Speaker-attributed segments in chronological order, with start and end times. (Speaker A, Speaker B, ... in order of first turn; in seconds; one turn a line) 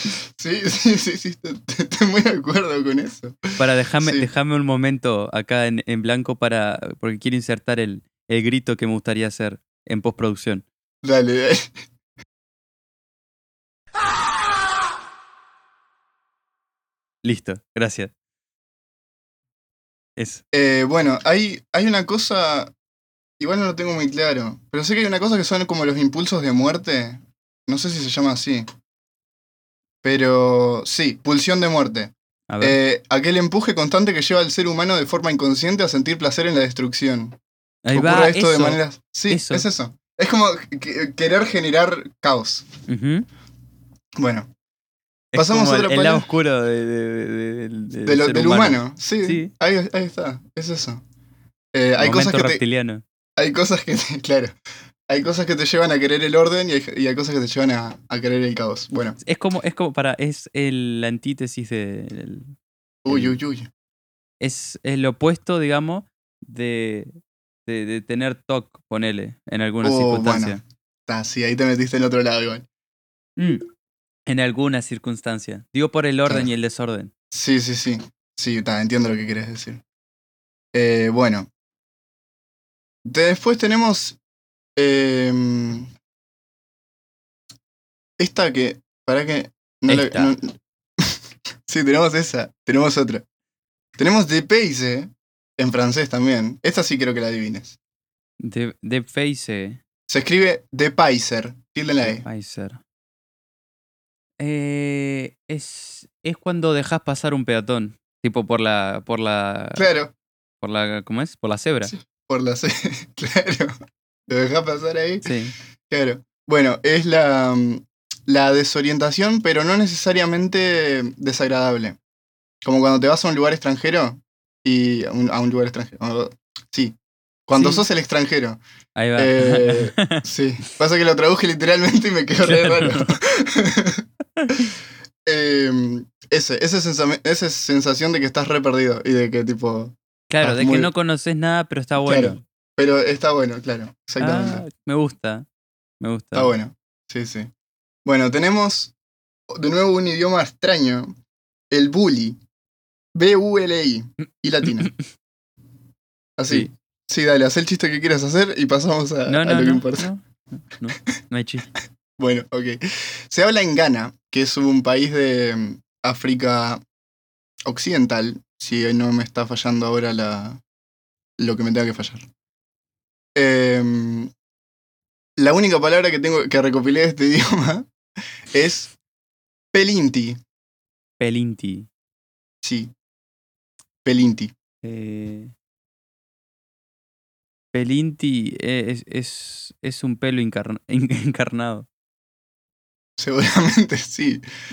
Speaker A: 0.4-4.3
Speaker B: 3.6-10.6
Speaker A: 11.0-11.7
Speaker B: 17.2-18.1
Speaker B: 20.2-20.4
Speaker A: 20.5-22.7
Speaker A: 23.4-28.6
Speaker A: 30.0-37.4
Speaker B: 32.5-32.8
Speaker B: 37.8-39.7
Speaker A: 37.9-42.6
Speaker B: 42.9-43.3
Speaker A: 44.2-44.5
Speaker B: 45.3-49.5
Speaker A: 45.3-46.3
Speaker A: 48.0-51.0
Speaker A: 51.7-52.6
Speaker B: 52.0-53.0
Speaker A: 53.4-54.5
Speaker A: 55.1-59.2
Speaker B: 59.2-62.5
Speaker A: 63.0-63.7
Speaker B: 63.1-63.4
Speaker B: 64.4-67.1
Speaker B: 67.7-70.6
Speaker A: 69.8-72.7
Speaker B: 73.4-73.6
Speaker B: 74.2-77.1
Speaker A: 77.3-79.8
Speaker A: 80.7-81.5
Speaker A: 83.0-84.2
Speaker A: 84.8-85.9
Speaker A: 88.2-91.1
Speaker B: 89.9-90.3
Speaker A: 91.7-93.2
Speaker A: 94.0-97.8
Speaker B: 98.4-99.8
Speaker A: 100.1-102.2
Speaker B: 102.0-102.8
Speaker B: 104.4-109.9
Speaker A: 109.8-110.1
Speaker B: 110.6-111.9
Speaker A: 111.8-113.7
Speaker A: 114.3-115.3
Speaker B: 115.2-115.5
Speaker A: 115.9-122.0
Speaker A: 122.6-126.9
Speaker A: 127.5-128.6
Speaker B: 127.5-127.8
Speaker B: 128.9-130.2
Speaker A: 129.2-134.0
Speaker B: 132.4-133.1
Speaker B: 134.4-134.7
Speaker A: 135.2-140.9
Speaker B: 140.3-142.4
Speaker A: 142.0-144.6
Speaker B: 144.2-145.4
Speaker B: 146.0-146.5
Speaker A: 146.3-147.5
Speaker A: 148.0-148.9
Speaker A: 149.5-151.1
Speaker A: 151.7-152.4
Speaker A: 153.1-154.9
Speaker B: 154.6-154.9
Speaker A: 156.4-160.1
Speaker B: 159.3-161.7
Speaker A: 162.2-166.8
Speaker A: 167.7-170.6
Speaker A: 171.4-172.3
Speaker A: 173.3-174.3
Speaker A: 175.4-177.9
Speaker A: 178.5-178.9
Speaker A: 179.7-180.4
Speaker B: 181.2-181.9
Speaker A: 182.6-182.9
Speaker A: 184.0-184.5
Speaker B: 184.8-185.5
Speaker B: 187.7-191.9
Speaker A: 193.2-194.4